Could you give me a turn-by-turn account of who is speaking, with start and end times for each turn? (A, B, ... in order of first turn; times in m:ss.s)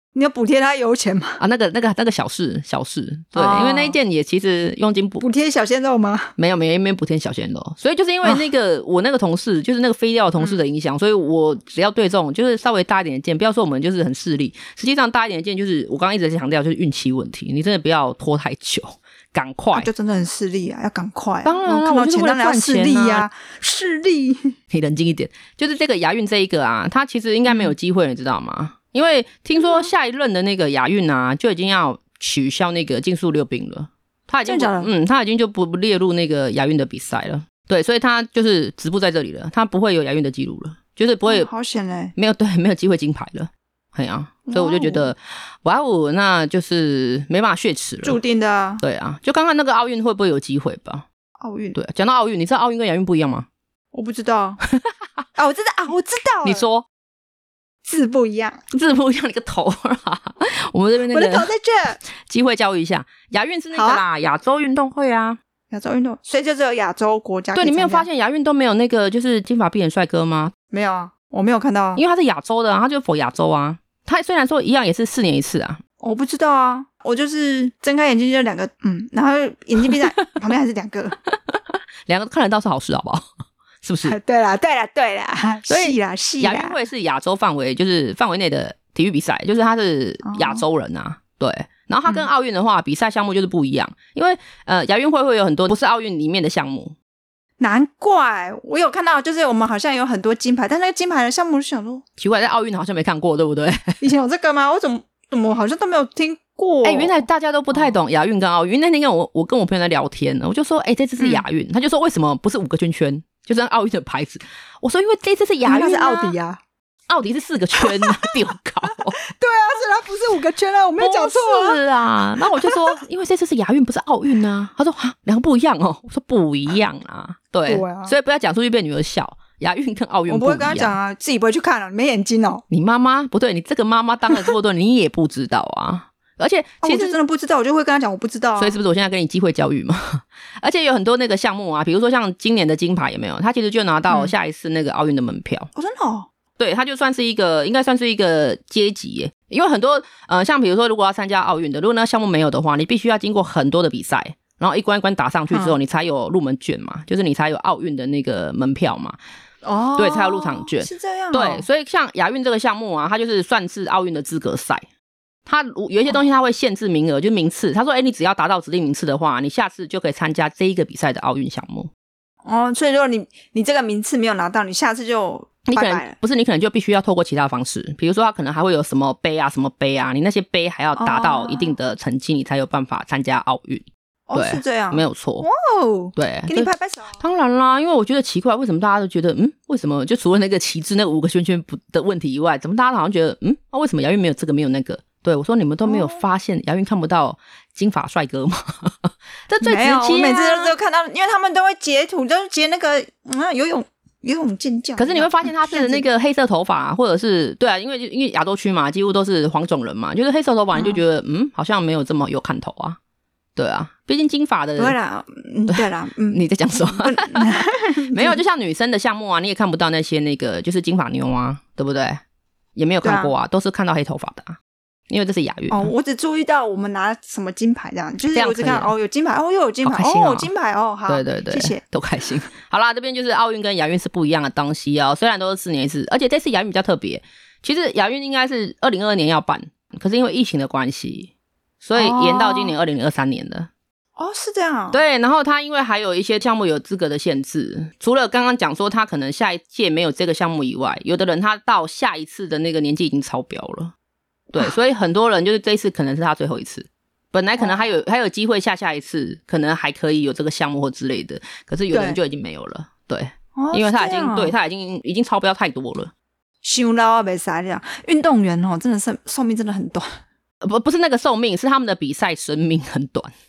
0:00.2-0:01.4 A
0:01.4-0:05.2 B
0:03.4-0:04.0 A
0:05.2-0:06.3 A
0:06.4-0:19.9 B
0:19.7-0:24.5 A
0:21.4-0:23.3 B
0:24.7-0:41.5 B
0:27.5-0:27.7 A
0:29.6-0:29.9 A
0:34.5-0:34.9 A
0:41.3-0:42.2 A
0:42.2-0:48.2 B
0:44.5-0:45.1 A
0:48.0-0:48.8 A
0:48.8-0:51.1 B
0:51.4-0:51.8 A
0:51.8-0:53.5 B
0:53.9-0:54.6 A
0:55.4-0:56.6 A
0:56.4-0:56.9 B
0:57.8-0:58.6 A
0:58.7-1:01.5 B
1:01.1-1:02.0 A
1:02.2-1:05.4 B
1:03.7-1:04.0 A
1:05.7-1:08.1 A
1:07.6-1:10.5 B
1:10.7-1:12.0 A
1:12.0-1:15.8 B
1:16.0-1:21.2 A
1:21.3-1:23.2 B
1:23.8-1:24.2 B
1:24.0-1:26.8 A
1:25.7-1:37.0 B
1:30.2-1:30.6 A
1:37.6-1:42.0 A
1:42.2-1:44.0 B
1:44.0-1:47.9 A
1:46.8-1:56.4 B
1:51.2-1:51.4 A
1:55.7-1:56.6 A
1:57.1-1:59.2 B
1:57.8-1:58.3 A
1:59.2-2:01.8 A
2:01.0-2:11.0 B
2:02.6-2:03.0 A
2:07.7-2:08.1 A
2:10.3-2:12.6 A
2:12.7-2:17.2 B
2:16.8-2:18.8 A
2:18.6-2:25.7 B
2:25.8-2:26.3 A
2:26.6-2:39.2 B
2:35.5-2:35.8 A
2:39.6-2:41.7 A
2:40.0-2:44.8 B
2:45.5-2:51.9 B
2:52.4-2:56.2 A
2:55.7-3:05.5 B
3:01.0-3:01.8 A
3:04.3-3:07.2 A
3:06.2-3:20.7 B
3:15.9-3:16.2 A
3:19.6-3:26.1 A
3:25.0-3:33.0 B
3:30.7-3:31.0 A
3:33.6-3:35.0 B
3:34.8-3:38.4 A
3:35.7-3:42.2 B
3:42.8-3:44.6 B
3:43.0-3:43.3 A
3:45.1-3:45.9 B
3:45.7-3:51.8 A
3:48.3-3:48.9 B
3:49.8-3:50.5 B
3:51.1-4:03.7 B
4:02.0-4:02.7 A
4:04.2-4:05.0 A
4:04.9-4:13.9 B
4:14.5-4:26.1 B
4:17.6-4:17.9 A
4:21.9-4:22.2 A
4:23.6-4:24.5 A
4:26.6-4:30.1 A
4:30.6-4:33.3 B